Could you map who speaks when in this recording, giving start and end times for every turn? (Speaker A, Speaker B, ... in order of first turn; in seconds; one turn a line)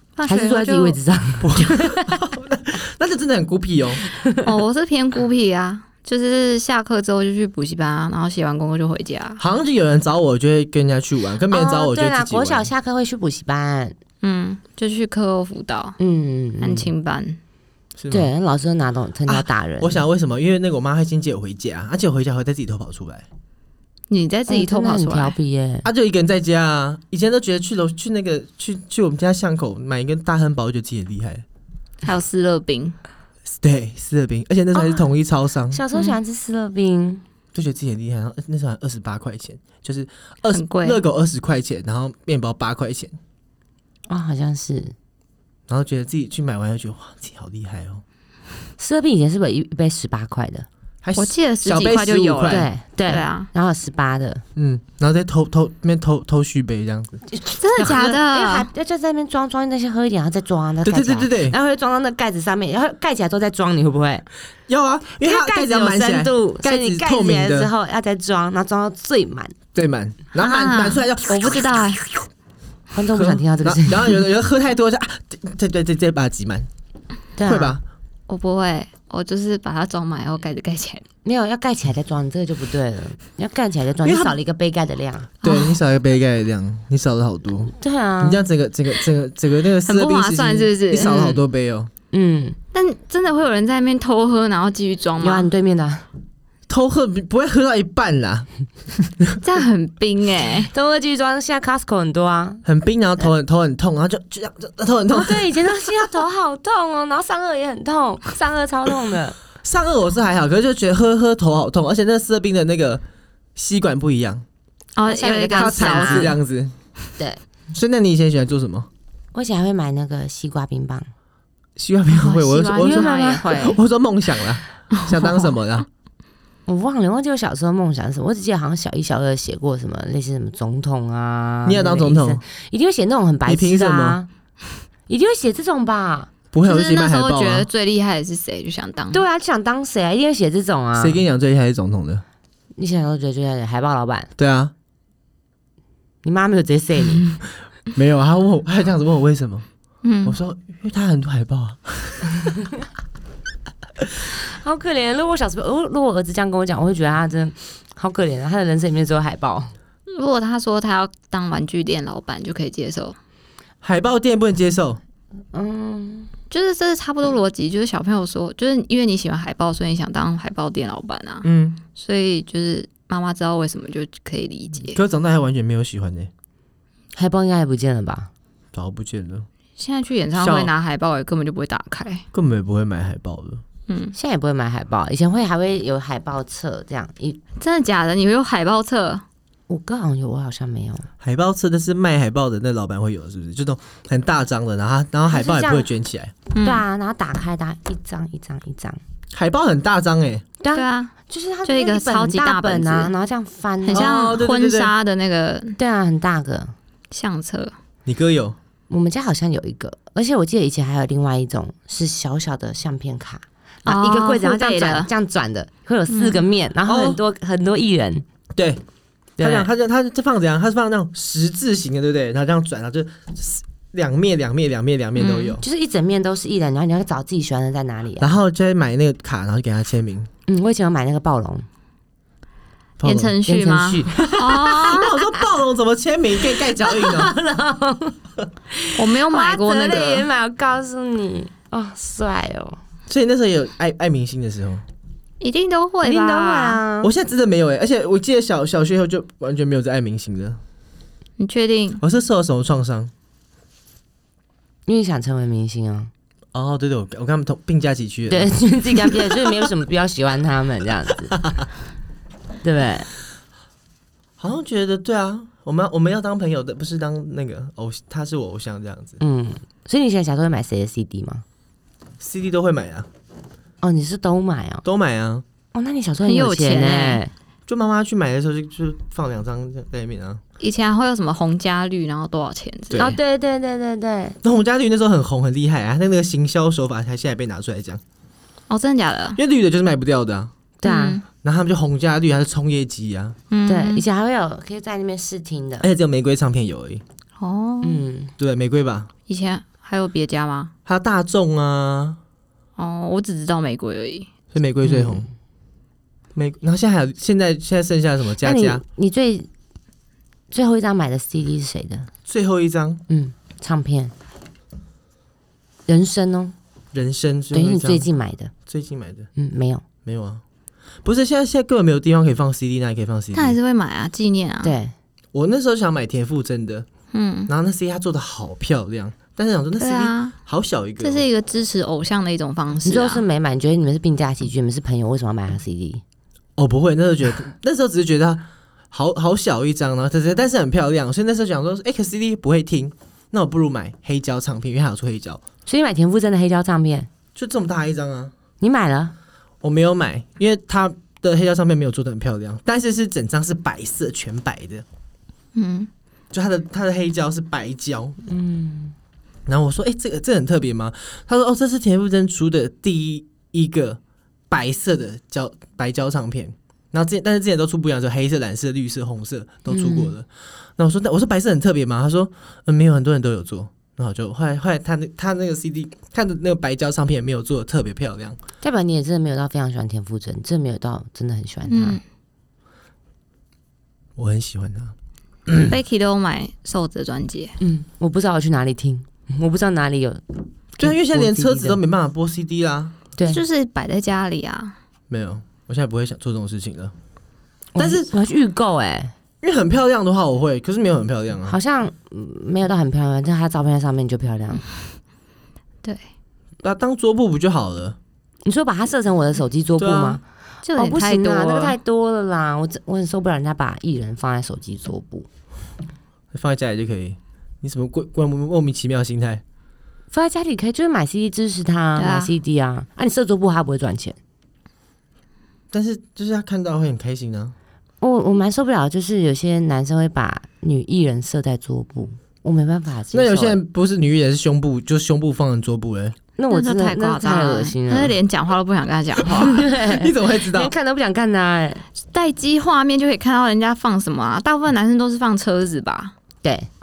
Speaker A: 0.2-1.0
Speaker B: 0.2-2.3
Speaker C: 1.4-4.0
Speaker B: 4.1-4.5
Speaker A: 4.4-9.4
Speaker C: 9.4-12.7
Speaker B: 11.5-13.9
Speaker A: 14.2-16.0
Speaker B: 16.0-16.9
Speaker A: 16.6-17.4
Speaker C: 18.0-18.3
Speaker B: 18.1-20.0
Speaker C: 19.3-23.2
Speaker A: 24.1-25.3
Speaker B: 24.5-25.9
Speaker C: 25.8-31.4
Speaker A: 32.0-33.0
Speaker C: 33.5-35.8
Speaker B: 35.7-37.2
Speaker C: 37.5-43.2
Speaker A: 40.5-41.0
Speaker B: 44.1-44.9
Speaker C: 45.7-48.0
Speaker B: 48.8-50.7
Speaker C: 51.0-52.7
Speaker A: 51.1-53.5
Speaker B: 52.5-54.4
Speaker C: 54.5-57.2
Speaker B: 57.3-64.3
Speaker A: 57.5-58.7
Speaker C: 57.9-58.1
Speaker C: 60.8-61.5
Speaker C: 64.7-67.7
Speaker B: 65.2-69.5
Speaker C: 69.7-71.7
Speaker A: 70.3-72.1
Speaker B: 72.9-74.2
Speaker C: 73.1-76.7
Speaker B: 77.4-77.8
Speaker C: 77.4-77.8
Speaker A: 78.3-81.0
Speaker B: 81.2-85.3
Speaker C: 84.0-84.3
Speaker A: 85.4-85.8
Speaker C: 85.4-91.9
Speaker B: 87.8-88.4
Speaker A: 89.8-91.4
Speaker B: 92.1-92.6
Speaker A: 92.7-95.5
Speaker B: 95.2-96.0
Speaker C: 96.7-99.4
Speaker A: 99.4-100.7
Speaker B: 100.7-102.6
Speaker C: 102.6-105.5
Speaker B: 105.1-109.4
Speaker C: 109.6-113.0
Speaker C: 113.5-114.4
Speaker A: 115.0-116.4
Speaker B: 115.1-116.3
Speaker C: 115.5-116.7
Speaker C: 117.7-118.9
Speaker B: 119.3-121.1
Speaker C: 121.8-125.9
Speaker A: 122.1-123.8
Speaker B: 122.8-123.5
Speaker A: 124.9-125.5
Speaker B: 126.7-134.3
Speaker C: 131.6-132.4
Speaker C: 133.4-134.2
Speaker B: 135.1-136.3
Speaker C: 136.5-137.7
Speaker A: 136.6-139.2
Speaker B: 139.1-141.2
Speaker C: 140.9-142.2
Speaker B: 142.8-144.3
Speaker C: 144.4-144.7
Speaker B: 146.2-147.3
Speaker C: 147.9-149.7
Speaker A: 150.0-150.4
Speaker C: 150.2-152.4
Speaker B: 154.4-159.7
Speaker A: 160.1-163.2
Speaker C: 163.8-165.0
Speaker B: 165.5-166.3
Speaker A: 166.5-175.0
Speaker C: 171.4-171.8
Speaker C: 174.9-176.3
Speaker B: 177.1-178.3
Speaker C: 178.7-179.4
Speaker A: 179.8-182.2
Speaker C: 180.3-180.7
Speaker C: 182.3-183.6
Speaker A: 183.9-184.1
Speaker B: 184.1-187.4
Speaker A: 187.6-189.2
Speaker B: 189.7-191.1
Speaker C: 191.2-196.3
Speaker B: 195.3-195.9
Speaker A: 196.6-196.8
Speaker B: 196.6-199.0
Speaker C: 199.3-200.4
Speaker B: 200.6-204.1
Speaker A: 200.7-203.1
Speaker A: 203.8-205.8
Speaker C: 203.9-204.9
Speaker B: 205.8-206.7
Speaker A: 207.1-207.7
Speaker C: 208.1-208.6
Speaker B: 208.9-218.2
Speaker A: 213.8-215.1
Speaker A: 216.1-216.4
Speaker C: 216.9-217.2
Speaker C: 218.6-218.8
Speaker B: 219.4-219.7
Speaker C: 219.4-225.6
Speaker A: 225.2-225.6
Speaker B: 225.6-228.3
Speaker C: 228.2-230.3
Speaker B: 230.5-231.7
Speaker C: 233.0-233.3
Speaker A: 233.0-235.1
Speaker B: 233.4-234.6
Speaker C: 234.2-237.3
Speaker B: 236.7-238.2
Speaker B: 238.7-242.8
Speaker A: 238.9-240.3
Speaker C: 243.1-244.8
Speaker A: 245.4-246.8
Speaker B: 246.0-247.1
Speaker C: 247.0-250.6
Speaker A: 251.4-252.0
Speaker C: 252.0-253.1
Speaker B: 254.9-256.1
Speaker C: 256.5-259.4
Speaker B: 258.3-261.3
Speaker C: 261.3-261.7
Speaker B: 262.6-263.1
Speaker C: 264.4-269.2
Speaker B: 269.2-271.4
Speaker C: 272.2-273.1
Speaker B: 273.8-274.8
Speaker C: 274.8-275.4
Speaker B: 275.7-277.3
Speaker A: 276.2-277.2
Speaker C: 277.7-280.4
Speaker A: 280.6-283.2
Speaker C: 282.9-283.2
Speaker B: 283.0-284.4
Speaker C: 284.4-288.0
Speaker A: 288.7-289.4
Speaker C: 289.4-290.5
Speaker B: 290.8-291.2
Speaker A: 290.8-291.2
Speaker C: 291.4-293.4
Speaker A: 293.5-294.0
Speaker B: 293.6-295.9
Speaker C: 295.8-297.0
Speaker A: 297.4-298.0
Speaker B: 297.8-298.3
Speaker C: 298.4-299.1
Speaker A: 299.3-300.7
Speaker C: 300.9-302.2
Speaker A: 302.8-304.3
Speaker C: 304.5-305.3
Speaker B: 304.8-305.3
Speaker C: 306.3-308.8
Speaker B: 308.4-309.5
Speaker B: 310.5-312.1
Speaker C: 312.3-313.0
Speaker B: 313.1-314.1
Speaker B: 315.9-316.5
Speaker C: 316.9-318.1
Speaker B: 317.5-318.5
Speaker C: 318.6-319.3
Speaker B: 319.4-319.8
Speaker C: 320.0-320.4
Speaker C: 321.0-323.6
Speaker A: 323.3-324.8
Speaker B: 324.6-324.9
Speaker C: 325.3-326.9
Speaker A: 327.1-327.5
Speaker C: 327.5-331.3
Speaker A: 329.8-330.3
Speaker A: 331.0-333.2
Speaker B: 332.8-336.0
Speaker C: 336.6-345.4
Speaker B: 345.6-347.1
Speaker C: 347.3-348.3
Speaker B: 348.6-349.1
Speaker C: 349.6-354.8
Speaker A: 355.5-355.9
Speaker C: 356.3-358.2
Speaker B: 358.3-358.9
Speaker C: 359.4-378.4
Speaker B: 369.7-370.1
Speaker B: 378.6-382.0
Speaker A: 381.7-382.0
Speaker C: 384.2-384.9
Speaker C: 385.5-385.8
Speaker A: 385.7-387.6
Speaker B: 387.6-391.8
Speaker C: 390.8-392.9
Speaker B: 393.1-393.4
Speaker A: 393.2-394.7
Speaker C: 395.1-396.9
Speaker B: 397.7-399.1
Speaker C: 397.8-398.1
Speaker C: 399.4-401.6
Speaker B: 401.5-404.6
Speaker C: 406.6-408.0
Speaker B: 408.4-410.2
Speaker C: 409.8-410.2
Speaker A: 410.6-411.8
Speaker B: 410.8-415.3
Speaker C: 416.3-419.4
Speaker B: 420.1-424.2
Speaker A: 422.0-422.3
Speaker C: 425.7-427.5
Speaker B: 428.0-433.6
Speaker C: 433.1-436.2
Speaker B: 436.4-438.1
Speaker A: 436.5-439.6
Speaker C: 439.2-440.7
Speaker B: 439.3-441.8
Speaker A: 442.1-446.1
Speaker B: 446.4-446.7